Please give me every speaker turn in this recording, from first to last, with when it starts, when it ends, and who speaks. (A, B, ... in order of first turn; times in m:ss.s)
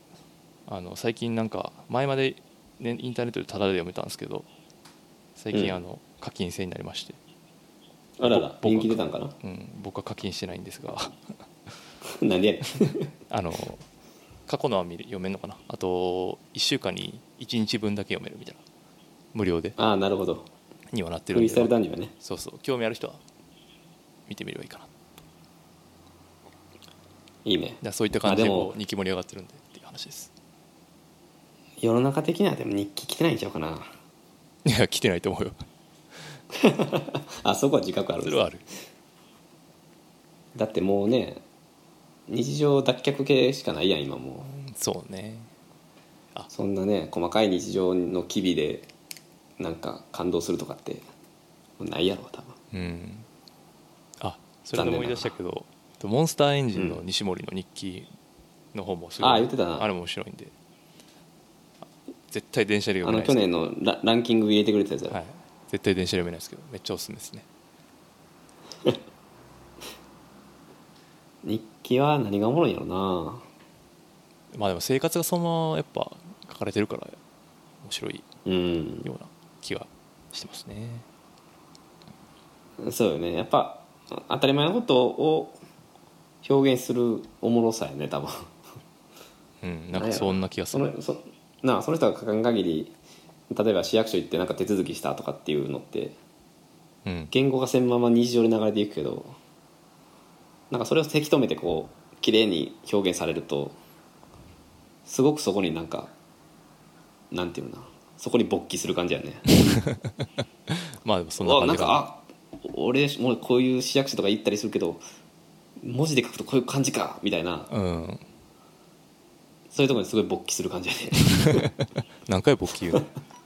0:00.7-0:04.5 A
0:05.4-0:07.2 A
0:08.2-0:09.3 B
0:08.2-0:11.7 A
0:12.0-0:13.1 B
0:13.3-0:13.8 A
0:14.5-0:18.6 A
0:19.3-0:19.8 A
0:19.8-0:20.5 B
0:20.9-0:23.2 A
0:21.3-0:22.1 B
0:24.3-0:25.1 A
0:27.4-0:28.7 B
0:27.8-0:30.3 A
0:31.8-0:33.9 B
0:34.6-0:35.7 A
0:36.5-0:38.5 B
0:38.2-0:38.6 A
0:40.6-0:41.4 B
0:42.3-0:44.5 B
0:44.4-0:45.5 A
0:46.5-0:48.9 B
0:49.6-0:51.0 B
0:51.8-0:52.6 B
0:52.7-0:53.3 A
0:54.2-0:58.1 A
0:54.8-0:55.3 B
0:56.7-0:57.0 B
0:58.7-1:00.5 A
0:59.2-0:59.8 B
1:02.3-1:03.4 A
1:03.0-1:05.2 B
1:05.1-1:07.5 A
1:11.4-1:13.5 B
1:14.5-1:17.2 A
1:17.8-1:18.3 A
1:18.5-1:19.1 B
1:19.0-1:21.1 A
1:22.8-1:25.6 B
1:26.4-1:28.6 B
1:29.6-1:30.9 A
1:29.9-1:32.9 B
1:33.5-1:36.2 B
1:37.0-1:37.3 A
1:37.3-1:39.4 B
1:40.7-1:43.8 B
1:45.1-1:46.1 B
1:47.3-1:49.8 B
1:49.7-1:52.0 A
1:51.4-1:55.0 B
1:55.8-1:57.7 B
1:57.7-1:58.2 A
1:59.7-2:01.7 B
2:01.4-2:03.0 A